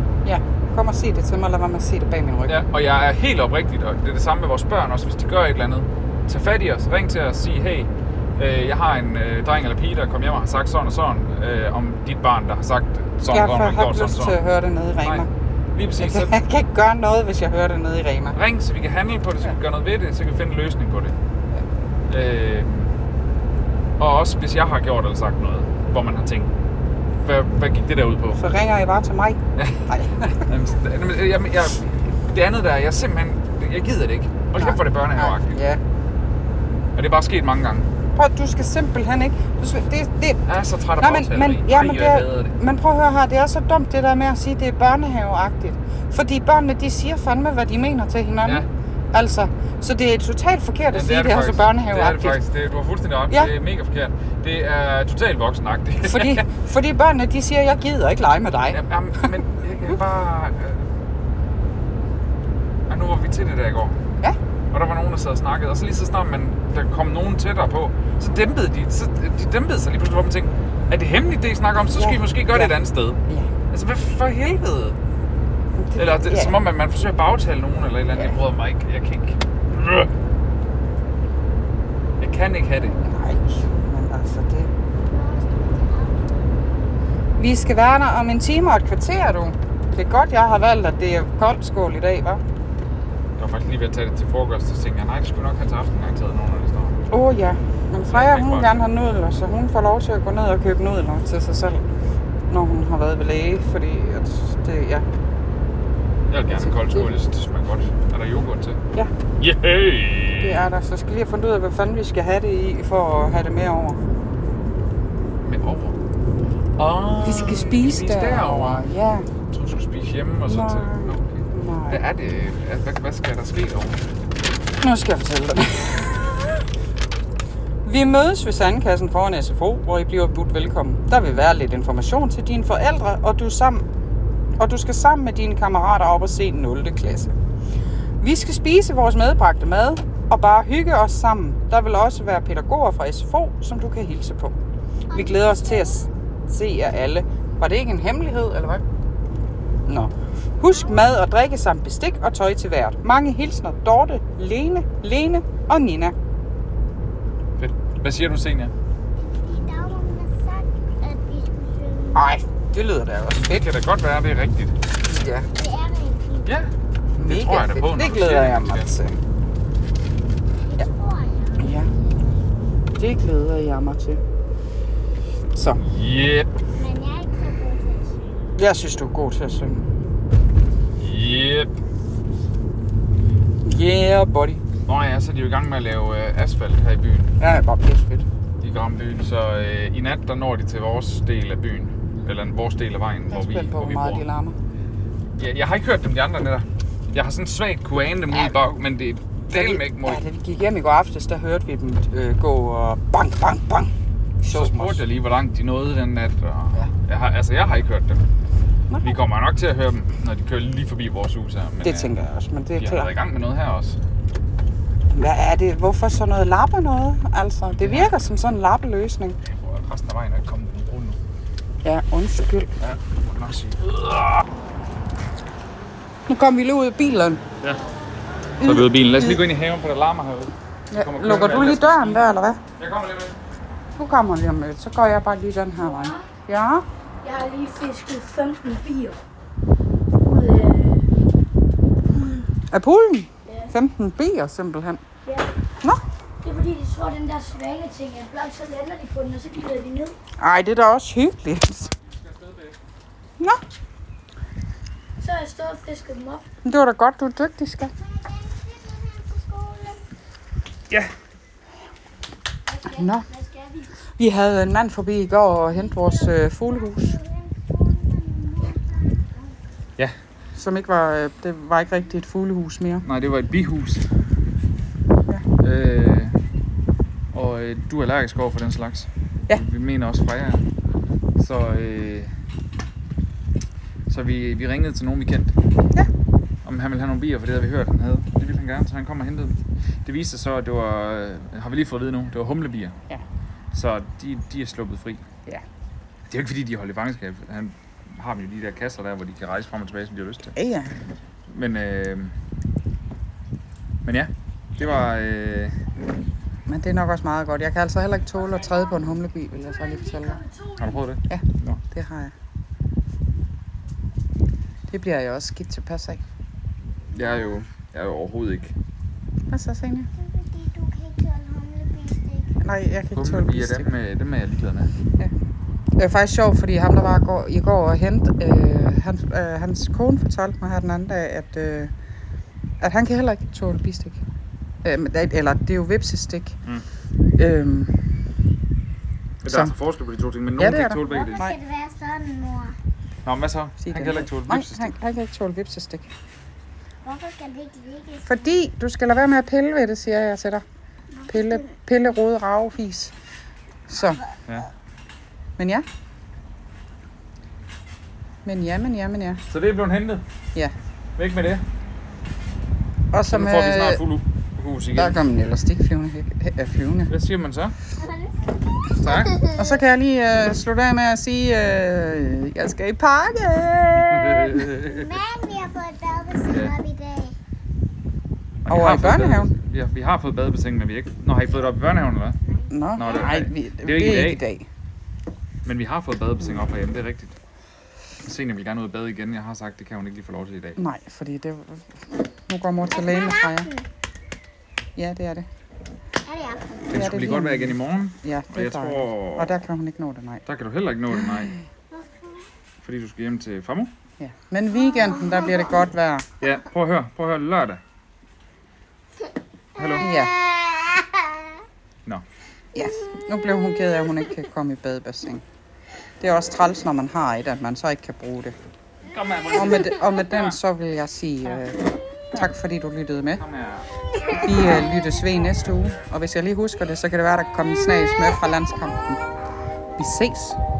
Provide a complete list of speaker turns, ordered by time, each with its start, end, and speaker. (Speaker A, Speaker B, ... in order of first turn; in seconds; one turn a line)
Speaker A: 0.2-2.5
Speaker B: 2.5-14.4
Speaker A: 13.3-15.3
Speaker B: 15.0-16.4
Speaker A: 16.0-18.4
Speaker B: 18.3-21.1
Speaker B: 22.1-22.9
Speaker B: 24.0-26.5
Speaker B: 27.2-28.4
Speaker A: 28.4-30.5
Speaker B: 29.6-29.8
Speaker B: 30.4-35.6
Speaker A: 34.6-35.8
Speaker B: 36.9-37.9
Speaker A: 38.1-40.4
Speaker B: 40.4-42.5
Speaker A: 41.0-52.4
Speaker B: 50.9-56.4
Speaker A: 56.0-59.2
Speaker B: 58.7-60.9
Speaker B: 62.9-64.0
Speaker B: 64.7-75.0
Speaker A: 71.9-72.7
Speaker A: 75.8-76.6
Speaker B: 76.0-80.1
Speaker A: 78.1-78.4
Speaker B: 82.2-83.0
Speaker A: 83.0-84.7
Speaker C: 85.0-86.8
Speaker A: 87.4-92.4
Speaker B: 93.4-97.0
Speaker A: 97.1-101.8
Speaker B: 98.1-98.8
Speaker A: 102.5-105.0
Speaker B: 106.3-108.8
Speaker A: 106.5-107.1
Speaker B: 109.4-110.6
Speaker A: 110.4-114.0
Speaker B: 115.4-116.0
Speaker B: 116.8-118.9
Speaker A: 117.2-119.3
Speaker B: 119.5-124.0
Speaker A: 120.5-122.0
Speaker A: 124.8-126.6
Speaker A: 127.8-133.9
Speaker A: 134.6-137.3
Speaker A: 138.2-144.5
Speaker C: 145.1-146.1
Speaker A: 145.1-148.8
Speaker A: 149.9-156.1
Speaker C: 150.7-151.1
Speaker B: 157.6-158.7
Speaker C: 159.2-162.4
Speaker A: 162.1-163.6
Speaker B: 163.4-164.8
Speaker A: 165.0-165.5
Speaker C: 165.5-166.6
Speaker B: 166.4-168.9
Speaker A: 167.2-169.2
Speaker C: 170.6-172.5
Speaker A: 171.6-171.9
Speaker A: 173.0-174.2
Speaker A: 175.5-175.8
Speaker B: 175.8-176.5
Speaker C: 176.7-178.3
Speaker A: 178.6-179.9
Speaker B: 181.0-181.7
Speaker A: 183.6-184.6
Speaker B: 184.8-187.3
Speaker A: 187.4-188.2
Speaker B: 188.6-194.2
Speaker A: 193.3-194.6
Speaker B: 195.4-200.2
Speaker A: 199.5-203.9
Speaker A: 204.4-205.0
Speaker B: 204.5-208.2
Speaker A: 208.9-209.1
Speaker B: 209.0-212.1
Speaker A: 211.8-213.1
Speaker B: 212.7-214.0
Speaker A: 215.1-219.4
Speaker B: 217.7-218.2
Speaker B: 219.4-221.2
Speaker A: 221.8-222.7
Speaker B: 222.8-224.4
Speaker A: 226.3-227.4
Speaker B: 227.6-227.9
Speaker A: 228.6-229.4
Speaker B: 228.6-232.2
Speaker A: 230.9-232.6
Speaker B: 232.8-233.3
Speaker A: 234.0-236.8
Speaker D: 235.8-236.3
Speaker D: 237.2-239.2
Speaker D: 240.2-241.1
Speaker D: 242.2-242.4
Speaker A: 242.7-245.0
Speaker D: 243.4-243.7
Speaker D: 245.2-245.5
Speaker D: 246.4-250.1
Speaker A: 250.4-251.9
Speaker B: 252.0-252.8
Speaker D: 255.2-256.4
Speaker A: 256.6-257.9
Speaker C: 257.9-260.0
Speaker D: 262.8-263.9
Speaker A: 262.9-263.2
Speaker C: 263.4-263.7
Speaker A: 264.2-267.2
Speaker C: 265.7-269.6
Speaker A: 270.5-273.1
Speaker B: 273.0-274.0
Speaker B: 275.6-276.4
Speaker B: 277.3-280.6
Speaker B: 281.4-282.3
Speaker B: 284.1-285.5
Speaker B: 286.6-292.9
Speaker B: 293.7-295.2
Speaker B: 296.3-300.5
Speaker A: 300.5-300.9
Speaker B: 301.5-302.3
Speaker B: 304.0-305.9
Speaker A: 306.7-310.4
Speaker D: 308.4-309.0
Speaker D: 309.6-311.0
Speaker B: 310.8-311.8
Speaker A: 311.3-312.3
Speaker A: 314.9-316.2
Speaker B: 317.1-318.7
Speaker A: 319.5-320.1
Speaker C: 320.1-322.5
Speaker A: 322.6-323.9
Speaker B: 323.1-324.9
Speaker A: 326.0-331.9
Speaker A: 332.8-334.2
Speaker A: 334.8-336.6
Speaker A: 337.4-337.9
Speaker B: 339.4-341.4
Speaker A: 339.4-339.7
Speaker A: 340.6-341.6
Speaker C: 340.8-342.8
Speaker B: 343.2-344.9
Speaker A: 343.8-346.1
Speaker C: 347.0-348.6
Speaker A: 348.2-350.6
Speaker C: 351.1-351.7
Speaker A: 351.3-353.1
Speaker A: 353.9-354.2
Speaker A: 355.6-355.9
Speaker A: 358.4-359.4
Speaker B: 359.5-360.2
Speaker B: 361.2-361.6
Speaker A: 363.1-364.0
Speaker B: 363.3-365.2
Speaker A: 364.9-367.1
Speaker B: 367.1-367.7
Speaker C: 368.0-369.8
Speaker B: 368.9-369.4
Speaker A: 369.5-374.6
Speaker B: 374.1-375.1
Speaker C: 374.7-377.4
Speaker B: 376.5-376.8
Speaker B: 378.6-382.4
Speaker A: 378.7-379.5
Speaker A: 382.7-384.7
Speaker B: 382.9-384.4
Speaker C: 383.0-383.3
Speaker B: 385.6-387.4
Speaker B: 388.2-390.8
Speaker A: 390.8-391.8
Speaker A: 392.5-393.7
Speaker C: 392.9-393.9
Speaker A: 394.9-395.5
Speaker C: 396.2-396.9
Speaker B: 396.9-399.6
Speaker A: 396.9-400.4
Speaker B: 400.4-401.5
Speaker C: 401.9-402.4
Speaker B: 402.8-403.9
Speaker A: 404.2-406.3
Speaker C: 404.9-405.8
Speaker B: 406.4-407.8
Speaker B: 409.8-410.1
Speaker C: 409.8-411.4
Speaker A: 410.0-410.3
Speaker A: 412.7-415.4
Speaker A: 416.2-418.6
Speaker B: 419.0-420.6
Speaker A: 419.5-423.4
Speaker B: 423.3-423.9
Speaker A: 424.3-429.2
Speaker A: 430.0-430.6